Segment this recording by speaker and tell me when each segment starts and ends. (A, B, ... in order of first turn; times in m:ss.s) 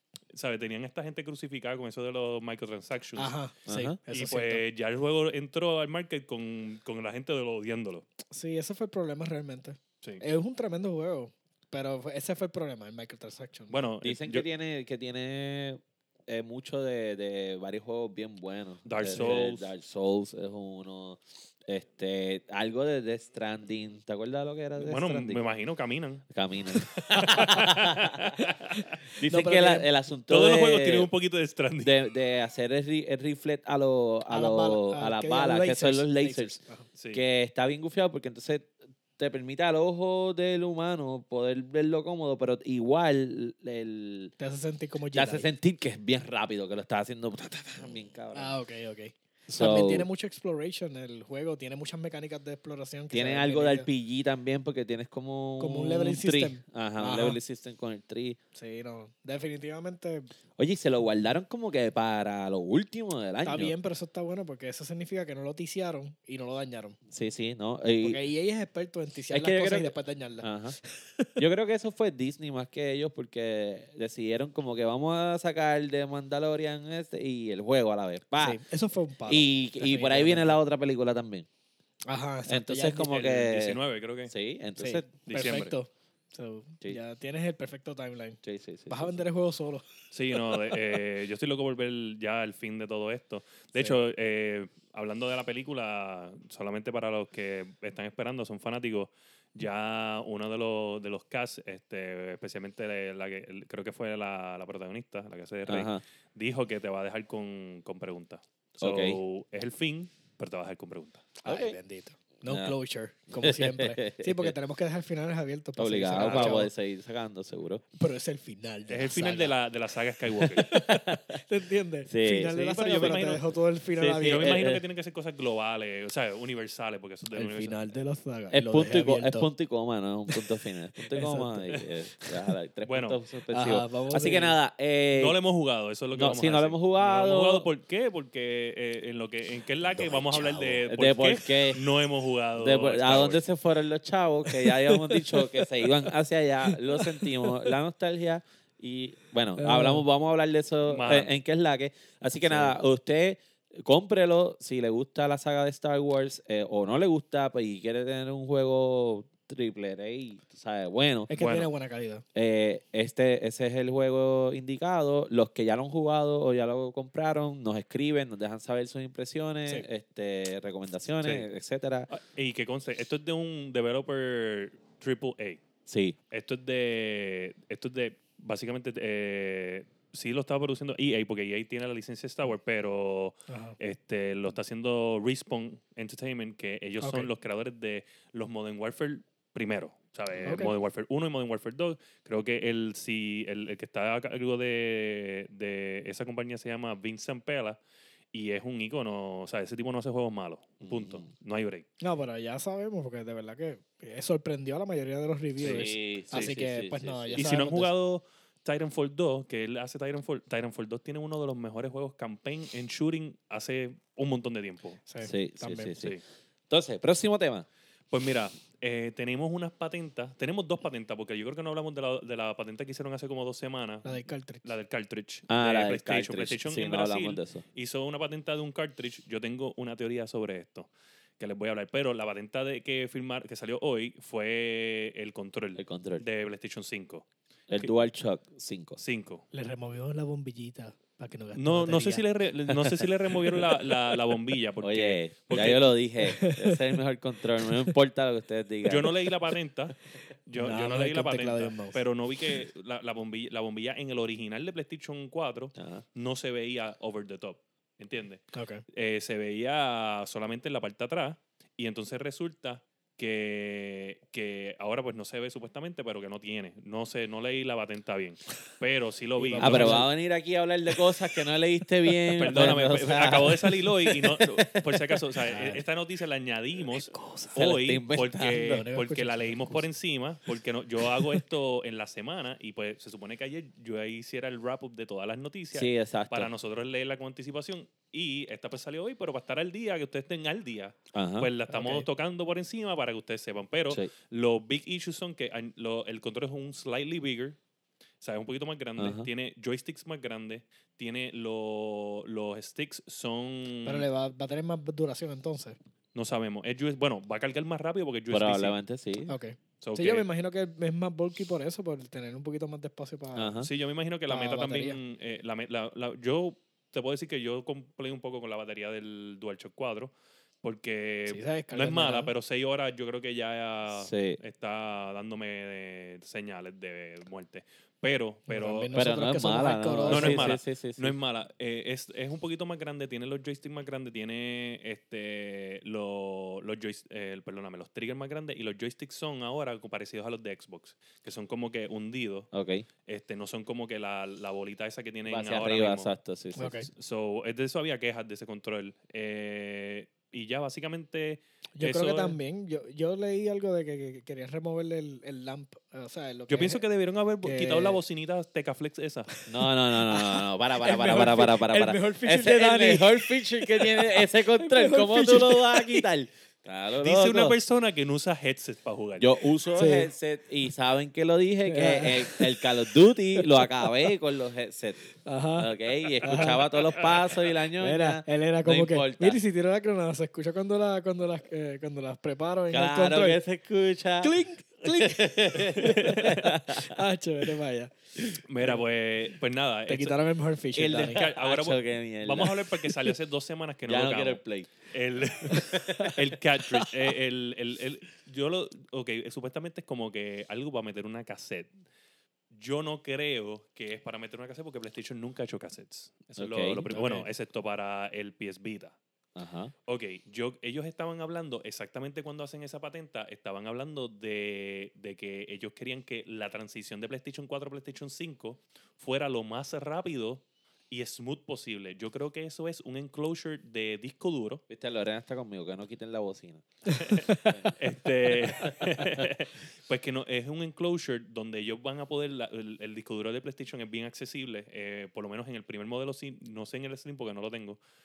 0:00.3-0:03.3 A
0:03.2-0:04.6 B
0:03.7-0:04.0 C
0:04.1-0:08.0 A
0:08.3-0:13.8 B
0:13.7-0:14.4 A
0:14.0-0:25.4 C
0:18.8-0:19.7 A
0:24.8-0:26.3 A
0:26.3-0:28.4 C
0:26.8-0:28.8 A
0:27.2-0:27.5 B
0:28.4-0:29.9 B
0:29.2-0:31.1 C
0:30.3-0:32.0 A
0:31.8-0:36.6 C
0:34.3-0:36.9 B
0:37.0-0:37.2 A
0:37.1-0:44.3 C
0:44.4-0:45.5 B
0:45.1-0:48.6 C
0:48.3-0:53.9 B
0:49.5-0:50.1 C
0:53.1-0:58.4 C
0:55.6-0:57.4 B
0:58.6-1:00.3 B
1:00.6-1:03.7 C
1:03.4-1:07.0 B
1:07.1-1:08.2 C
1:08.0-1:11.4 B
1:09.3-1:10.8 C
1:11.4-1:18.6 C
1:18.4-1:20.6 B
1:19.3-1:21.5 C
1:22.1-1:23.2 B
1:22.5-1:25.1 C
1:23.1-1:24.3 A
1:24.8-1:29.9 B
1:25.3-1:25.7 A
1:28.4-1:29.2 C
1:30.1-1:51.3 A
1:45.7-1:46.0 C
1:48.8-1:49.2 C
1:51.4-1:56.7 B
1:51.5-1:51.8 C
1:52.5-1:52.8 C
1:53.3-1:54.5 C
1:55.8-1:57.8 C
1:56.2-1:56.6 A
1:58.0-1:59.6 B
1:58.9-2:00.7 A
2:00.5-2:01.4 C
2:00.6-2:04.6 B
2:02.1-2:03.3 C
2:02.5-2:07.8 A
2:04.4-2:04.8 C
2:07.4-2:09.5 B
2:08.5-2:15.4 C
2:11.1-2:12.3 B
2:12.9-2:13.2 A
2:13.5-2:14.6 B
2:15.1-2:23.4 A
2:16.1-2:17.7 C
2:19.9-2:21.8 C
2:22.6-2:41.3 C
2:24.5-2:25.6 B
2:26.7-2:27.3 B
2:29.6-2:30.0 B
2:30.9-2:31.3 A
2:32.5-2:32.7 A
2:41.3-2:42.2 B
2:41.4-2:41.7 A
2:42.4-2:52.1 C
2:52.1-2:55.6 A
2:55.9-2:56.2 C
2:56.3-3:17.8 A
3:03.5-3:03.8 B
3:07.0-3:07.3 B
3:10.4-3:10.7 B
3:18.3-3:21.9 A
3:20.8-3:21.3 C
3:22.0-3:27.9 B
3:25.6-3:27.5 C
3:25.6-3:26.5 A
3:27.4-3:35.0 A
3:35.1-3:35.9 B
3:35.2-3:36.2 C
3:36.7-3:37.7 C
3:38.1-3:57.9 A
3:44.0-3:44.7 B
3:45.5-3:47.6 C
3:55.8-3:56.2 C
3:57.7-3:59.0 C
3:59.0-3:59.4 A
3:59.5-4:02.2 B
4:01.5-4:05.9 A
4:02.7-4:04.2 C
4:04.8-4:09.2 C
4:06.2-4:07.0 B
4:08.8-4:30.1 A
4:10.6-4:12.0 B
4:15.8-4:16.0 C
4:18.5-4:18.8 B
4:29.4-4:30.1 B
4:29.6-4:34.2 C
4:32.4-4:57.6 A
4:35.4-4:35.8 B
4:36.9-4:37.6 B
4:37.5-4:38.8 C
4:38.6-4:39.8 B
4:45.7-4:46.5 C
4:51.1-4:51.5 C
4:51.7-4:52.1 B
4:58.2-5:04.1 A
4:59.0-4:59.3 C
5:03.8-5:05.8 B
5:06.2-5:08.8 A
5:08.3-5:09.4 C
5:09.3-5:13.6 B
5:09.8-5:10.3 A
5:13.4-5:13.7 C
5:13.6-5:28.9 A
5:14.3-5:15.0 B
5:21.3-5:22.3 B
5:23.9-5:24.4 C
5:28.5-5:30.5 B
5:28.9-5:31.2 C
5:30.1-5:42.5 A
5:42.5-5:42.9 C
5:43.1-5:46.1 A
5:45.3-5:46.8 C
5:46.6-5:46.9 B
5:46.9-5:52.4 A
5:51.8-5:56.8 B
5:56.5-5:59.3 A
5:57.4-5:58.0 B
5:59.5-6:07.6 C
6:00.0-6:06.1 B
6:07.0-6:09.3 A
6:09.2-6:15.0 C
6:09.7-6:10.1 B
6:11.7-6:12.6 B
6:13.4-6:14.1 B
6:15.2-6:15.7 B
6:15.6-6:19.4 C
6:16.2-6:16.7 B
6:17.8-6:23.4 B
6:22.7-6:24.3 C
6:24.2-6:27.9 B
6:24.8-6:26.9 C
6:25.8-6:26.4 A
6:28.4-6:30.2 A
6:29.9-6:31.2 B
6:30.8-6:41.7 A
6:30.8-6:32.9 C
6:33.9-6:34.7 C
6:35.5-6:36.2 C
6:35.6-6:36.2 B
6:42.5-6:49.0 A
6:46.4-6:47.2 C
6:46.9-6:47.3 B
6:49.4-6:49.7 C
6:49.9-7:04.6 A
7:04.7-7:07.8 C
7:06.9-7:17.8 A
7:08.3-7:09.3 C